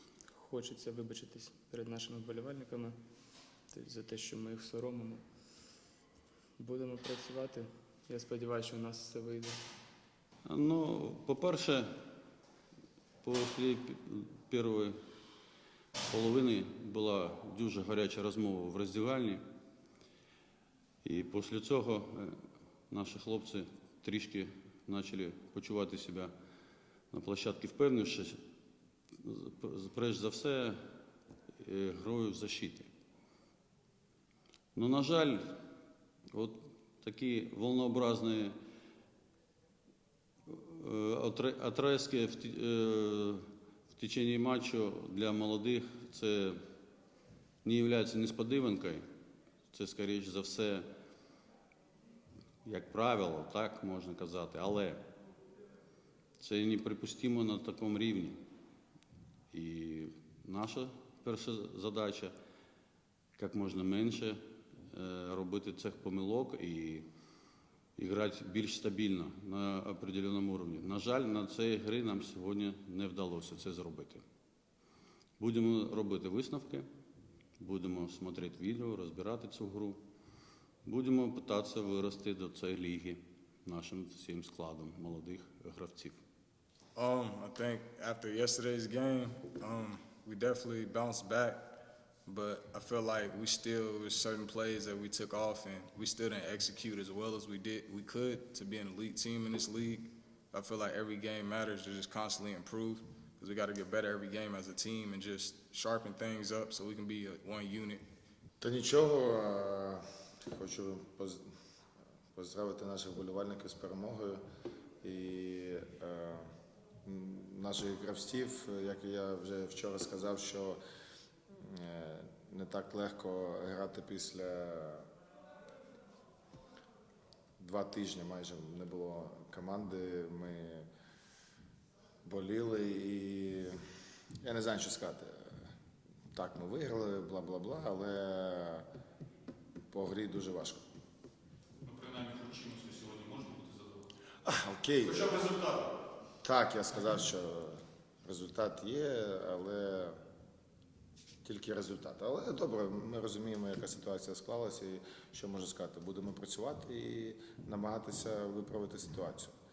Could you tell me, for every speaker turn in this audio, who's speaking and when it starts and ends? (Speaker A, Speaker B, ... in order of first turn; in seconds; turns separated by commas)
Speaker A: 0.3-3.0, Speaker A: 3.7-5.2, Speaker A: 6.6-9.6, Speaker B: 10.4-11.9, Speaker B: 13.2-15.0, Speaker B: 16.1-19.4, Speaker B: 21.0-22.4, Speaker B: 22.9-26.3, Speaker B: 27.1-28.4, Speaker B: 29.1-30.8, Speaker B: 31.6-32.9, Speaker B: 34.8-35.6, Speaker B: 36.3-38.6, Speaker B: 40.5-46.6, Speaker B: 47.6-49.0, Speaker B: 49.7-50.9, Speaker B: 52.6-55.1, Speaker B: 56.4-58.4, Speaker B: 59.5-62.4, Speaker B: 63.4-67.1, Speaker B: 68.0-74.2, Speaker B: 75.4-76.9, Speaker B: 77.6-80.0, Speaker B: 80.8-86.2, Speaker C: 87.0-91.7, Speaker C: 92.3-108.0, Speaker D: 108.6-111.5, Speaker D: 112.3-114.4, Speaker D: 115.0-116.5, Speaker D: 117.0-120.8, Speaker D: 121.5-125.1, Speaker D: 127.6-130.9, Speaker D: 132.2-133.8, Speaker D: 134.4-135.6, Speaker D: 136.3-138.9, Speaker D: 139.9-140.8, Speaker E: 141.8-144.0, Speaker D: 144.4-145.5, Speaker E: 145.4-145.9, Speaker D: 146.4-150.2, Speaker D: 151.4-159.5